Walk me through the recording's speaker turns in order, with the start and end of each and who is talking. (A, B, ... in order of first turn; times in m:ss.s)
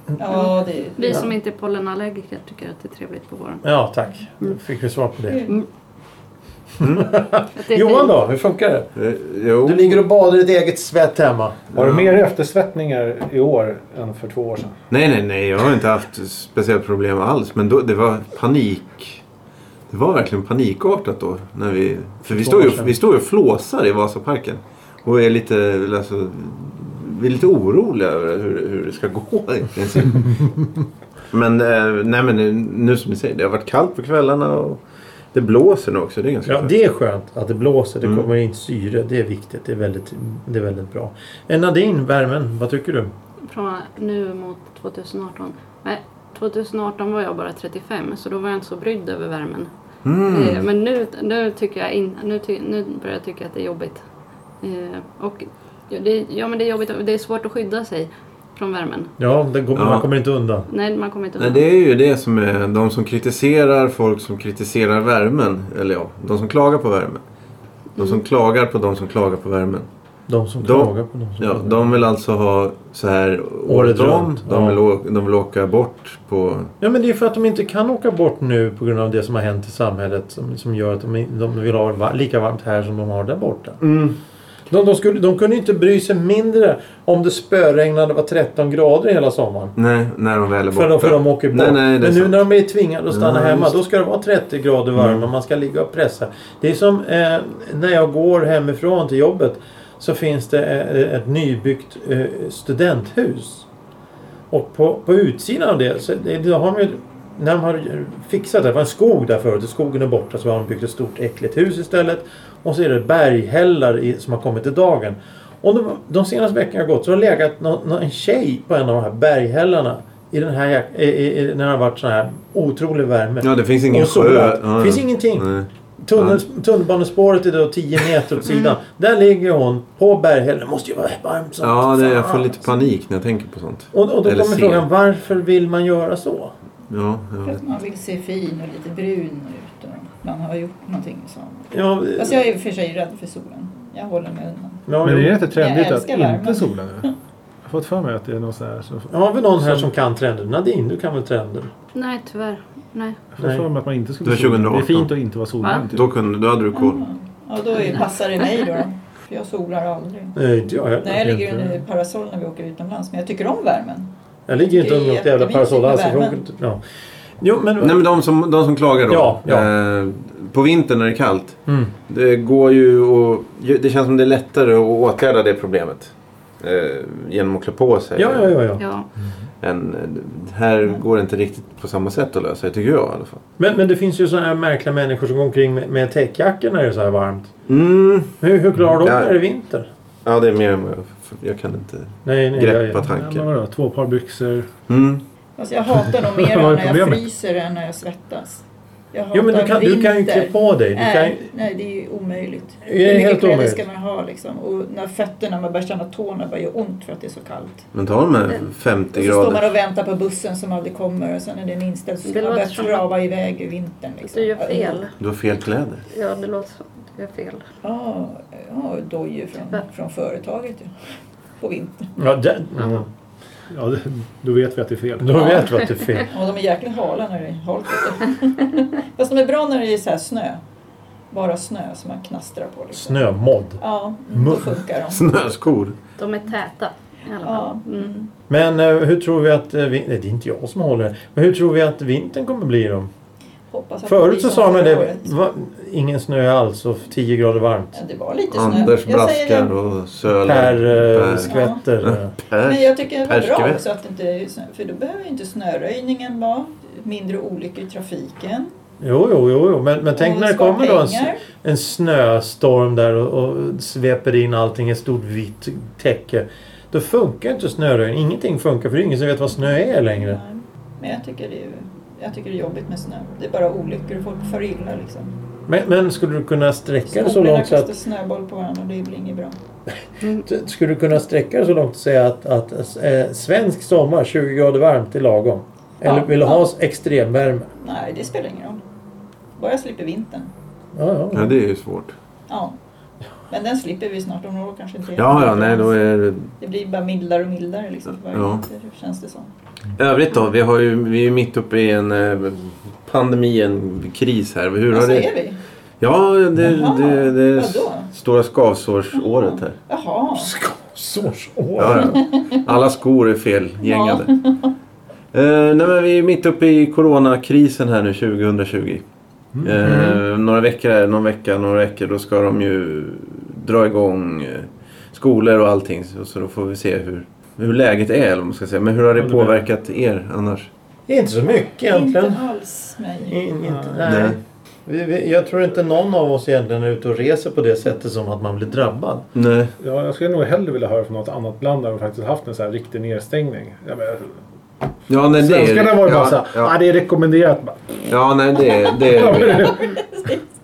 0:00.2-0:01.3 A
0:01.0-0:03.6 B
0:03.6-0:05.5 C
0:05.3-0:05.6 A
0:06.8-0:08.9 C
0:06.8-0:07.1 D
0:07.6-0:08.1 B
0:09.0-0:10.0 D
0:09.6-0:11.6 C
0:11.7-0:12.2 D
0:11.7-0:14.8 E
0:14.9-0:19.2 D
0:19.9-0:30.6 D
0:22.3-0:22.9 C
0:31.3-0:34.8 D
0:35.3-0:36.7 D
0:36.4-0:43.1 C
0:43.5-0:49.7 B
0:50.0-0:50.6 D
0:50.3-0:54.0 B
0:54.6-0:59.1 B
0:59.2-1:00.7 C
0:59.7-1:00.1 D
1:00.7-1:01.6 B
1:01.4-1:07.2 D
1:08.0-1:08.2 B
1:08.0-1:09.9 D
1:10.3-1:11.9 C
1:10.6-1:16.7 D
1:13.7-1:14.8 C
1:16.8-1:23.8 C
1:23.8-1:24.2 D
1:24.7-1:29.7 C
1:29.8-1:32.4 D
1:30.7-1:43.7 C
1:33.1-1:33.7 D
1:35.0-1:35.2 D
1:44.5-2:05.5 C
2:03.4-2:05.7 D
2:06.0-2:12.7 C
2:11.6-2:14.8 D
2:13.9-2:16.5 C
2:16.9-2:17.6 D
2:17.4-2:24.8 A
2:21.7-2:22.4 C
2:24.9-2:25.4 C
2:25.0-2:27.1 E
2:25.4-2:27.1 A
2:27.6-2:29.9 E
2:29.1-2:31.7 C
2:31.9-2:33.2 B
2:33.3-2:36.0 E
2:34.2-2:35.1 D
2:35.9-2:37.0 D
2:36.7-2:40.4 A
2:40.4-2:41.8 C
2:41.0-2:44.1 A
2:44.5-2:46.8 C
2:44.7-2:46.4 A
2:47.4-2:48.0 C
2:47.8-2:58.5 D
2:49.1-2:49.7 C
2:51.7-2:51.9 C
2:58.2-2:58.8 C
2:58.8-2:59.0 B
2:59.6-3:03.4 D
3:03.6-3:07.6 C
3:07.7-3:08.3 D
3:08.4-3:09.9 C
3:09.0-3:09.3 D
3:10.2-3:13.4 D
3:12.2-3:13.0 C
3:13.0-3:14.7 E
3:14.9-3:15.2 D
3:15.6-3:27.8 A
3:16.1-3:17.2 E
3:19.3-3:21.4 C
3:22.8-3:23.8 C
3:27.9-3:29.7 D
3:29.1-3:35.0 A
3:32.2-3:33.1 B
3:34.3-3:35.1 B
3:35.2-3:36.0 D
3:36.1-3:37.6 B
3:37.8-3:40.9 A
3:41.6-3:42.1 A
3:42.2-3:43.1 C
3:43.7-3:45.5 E
3:45.2-3:46.3 C
3:45.4-3:46.2 B
3:46.3-3:50.6 A
3:51.3-3:53.2 A
3:52.9-3:53.8 C
3:53.8-3:55.3 A
3:54.3-3:54.8 C
3:55.1-3:56.0 D
3:56.2-3:58.1 B
3:57.4-3:58.3 A
3:58.5-4:03.1 C
4:03.7-4:05.3 A
4:04.0-4:08.0 C
4:07.9-4:09.7 A
4:08.5-4:11.5 D
4:10.4-4:12.4 C
4:11.4-4:11.8 A
4:12.0-4:13.8 D
4:12.6-4:18.7 A
4:19.0-4:30.4 C
4:20.1-4:21.4 A
4:30.2-4:35.3 A
4:35.7-4:37.9 C
4:37.1-4:39.6 A
4:40.4-4:47.7 C
4:46.0-4:46.6 A
4:47.8-4:48.8 A
4:49.6-4:50.5 A
4:50.9-4:51.5 C
4:51.3-4:52.1 D
4:52.5-4:52.8 A
4:53.5-4:56.0 A
4:55.1-4:56.5 D
4:56.6-4:59.5 A
4:58.3-4:58.6 D
5:00.0-5:05.3 D
5:04.9-5:05.6 A
5:06.0-5:09.8 D
5:06.6-5:08.1 A
5:09.2-5:10.5 A
5:10.3-5:12.2 C
5:11.8-5:14.3 D
5:11.9-5:12.6 A
5:13.8-5:14.7 A
5:15.3-5:19.0 D
5:19.6-5:30.7 D
5:19.8-5:20.2 C
5:29.2-5:29.6 E
5:31.1-5:32.4 C
5:31.9-5:33.4 A
5:33.2-5:39.3 C
5:33.6-5:34.0 E
5:34.0-5:34.4 D
5:39.3-5:39.7 D
5:39.8-5:44.4 E
5:45.1-5:46.7 D
5:45.4-5:47.8 E
5:48.1-5:49.8 D
5:49.0-5:49.9 E
5:49.5-5:50.4 A